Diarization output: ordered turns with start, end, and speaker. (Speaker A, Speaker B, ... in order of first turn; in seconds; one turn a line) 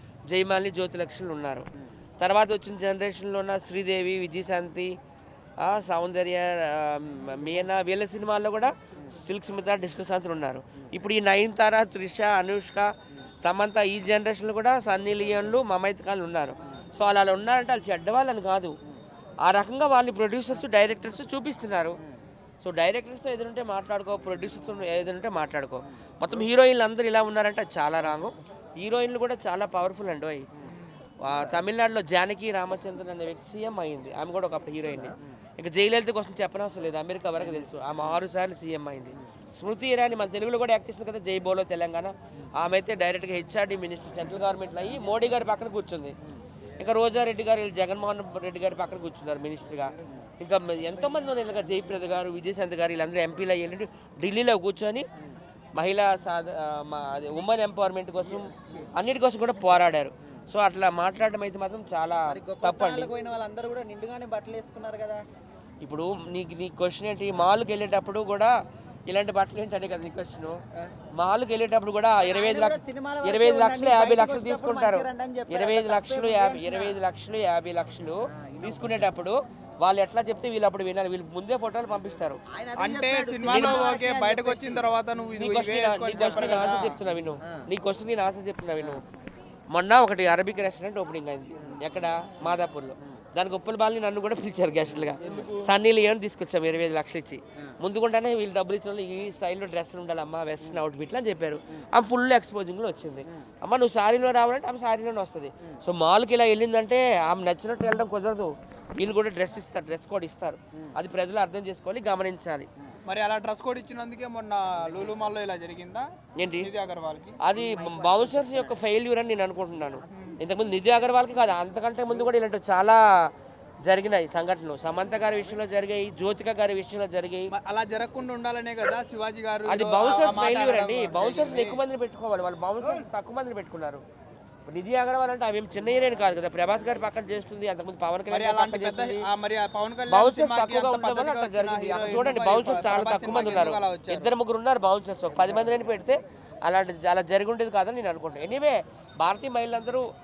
Speaker A: 0.3-1.7
Speaker A: 2.2-5.0
Speaker A: 5.6-12.9
Speaker A: 13.4-18.8
Speaker A: 19.4-22.0
Speaker A: 22.6-30.4
Speaker A: 31.2-46.1
Speaker A: 46.8-55.0
Speaker A: 55.8-63.1
Speaker B: 58.6-58.9
Speaker B: 62.3-65.2
Speaker A: 65.8-68.5
Speaker A: 69.1-70.6
Speaker A: 71.2-82.4
Speaker B: 72.2-77.0
Speaker B: 78.3-79.1
Speaker B: 82.5-84.8
Speaker C: 82.8-87.0
Speaker A: 83.5-83.9
Speaker A: 85.4-89.0
Speaker A: 89.7-112.7
Speaker B: 91.6-91.9
Speaker C: 95.2-95.7
Speaker C: 113.0-116.1
Speaker A: 116.3-116.7
Speaker C: 116.6-117.4
Speaker A: 117.4-123.0
Speaker B: 117.6-118.5
Speaker A: 123.8-127.5
Speaker C: 127.5-131.8
Speaker A: 129.7-134.0
Speaker A: 134.7-139.3
Speaker C: 138.3-144.3
Speaker A: 140.1-150.1